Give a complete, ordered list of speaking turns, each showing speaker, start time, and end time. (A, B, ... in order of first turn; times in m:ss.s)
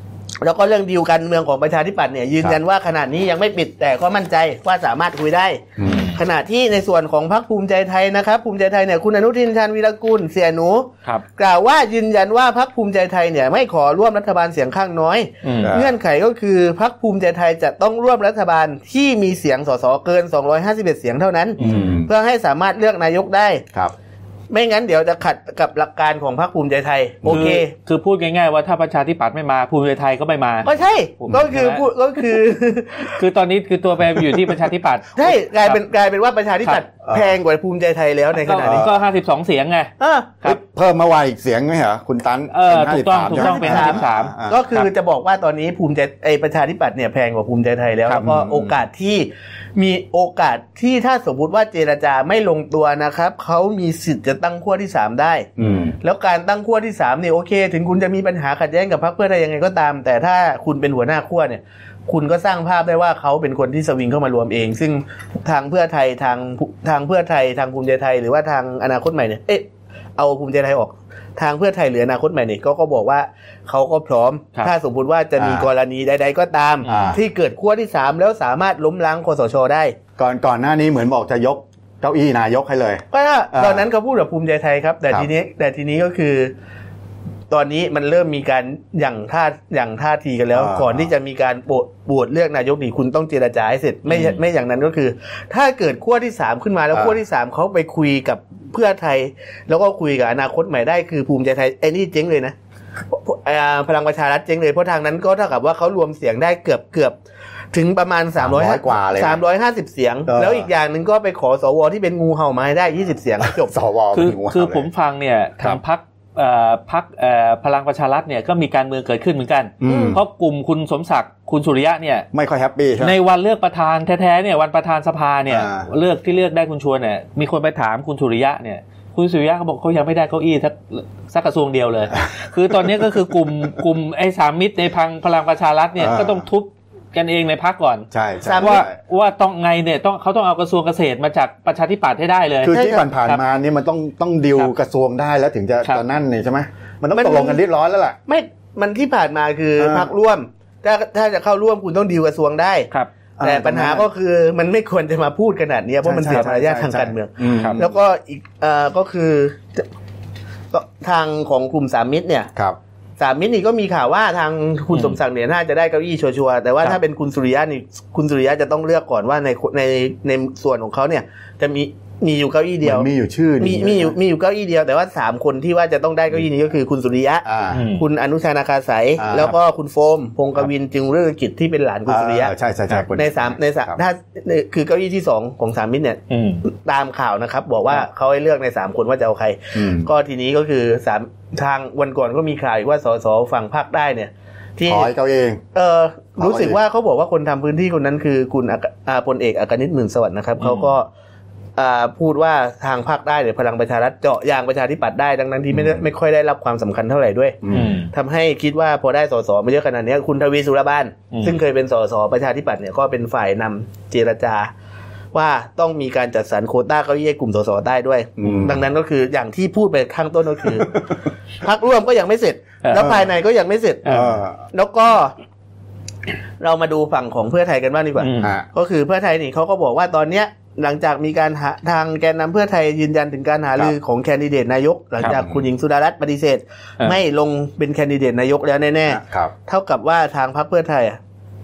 0:00.4-0:23.6 A
0:05.8-0:06.1 B
0:05.8-0:06.2 C
0:15.4-0:15.7 C
0:15.6-0:15.9 B
0:21.6-0:21.9 C
0:21.6-0:22.1 B
0:24.5-0:27.7 A
0:27.2-0:31.8 C
0:30.6-0:33.2 A
0:33.1-0:35.8 C
0:35.2-0:38.9 A
0:37.0-0:37.3 B
0:38.4-0:40.6 C
0:38.6-0:38.9 B
0:40.0-0:40.3 A
0:40.4-0:44.6 B
0:42.5-0:44.8 C
0:43.3-0:55.5 A
0:48.1-0:48.6 B
0:55.6-0:56.0 B
0:56.0-1:20.0 A
1:15.4-1:15.7 B
1:16.8-1:17.2 B
1:20.2-1:23.9 B
1:23.1-1:26.5 A
1:27.5-1:42.6 A
1:30.5-1:31.1 B
1:34.1-1:34.4 C
1:43.1-1:47.2 A
1:47.7-1:53.7 A
1:48.4-1:49.4 B
1:50.3-1:50.7 B
1:53.4-1:54.9 B
1:54.1-2:02.3 C
1:59.8-2:00.2 B
1:59.8-2:00.2 A
2:02.3-2:03.1 B
2:03.0-2:23.4 C
2:05.5-2:05.9 B
2:16.0-2:16.4 B
2:18.1-2:18.9 B
2:18.4-2:18.8 A
2:22.6-2:28.2 B
2:22.7-2:23.0 A
2:27.1-2:27.6 A
2:28.3-2:32.9 A
2:29.8-2:30.1 B
2:33.4-2:34.0 B
2:33.4-2:39.8 A
2:36.0-2:37.9 B
2:40.7-2:42.5 A
2:43.2-2:53.1 A
2:44.9-2:45.2 C
2:52.8-2:54.1 B
2:53.6-3:02.5 A
2:57.4-2:57.8 B
2:57.7-2:58.0 C
2:59.2-2:59.5 B
3:02.1-3:04.0 B
3:03.1-3:15.1 A
3:06.3-3:06.6 C
3:09.7-3:10.1 B
3:14.8-3:15.6 B
3:15.7-3:21.1 A
3:16.4-3:16.8 B
3:20.6-3:20.9 C
3:21.8-3:34.7 A
3:27.6-3:27.9 B
3:27.7-3:28.1 C
3:35.3-3:41.0 A
3:38.4-3:38.8 B
3:41.6-3:44.2 A
3:42.8-3:43.1 C
3:44.0-3:44.4 C
3:44.1-3:44.6 B
3:44.7-3:45.4 A
3:46.6-4:01.2 A
3:48.2-3:48.5 C
3:48.4-3:48.7 B
3:55.2-3:55.6 B
3:59.1-3:59.5 B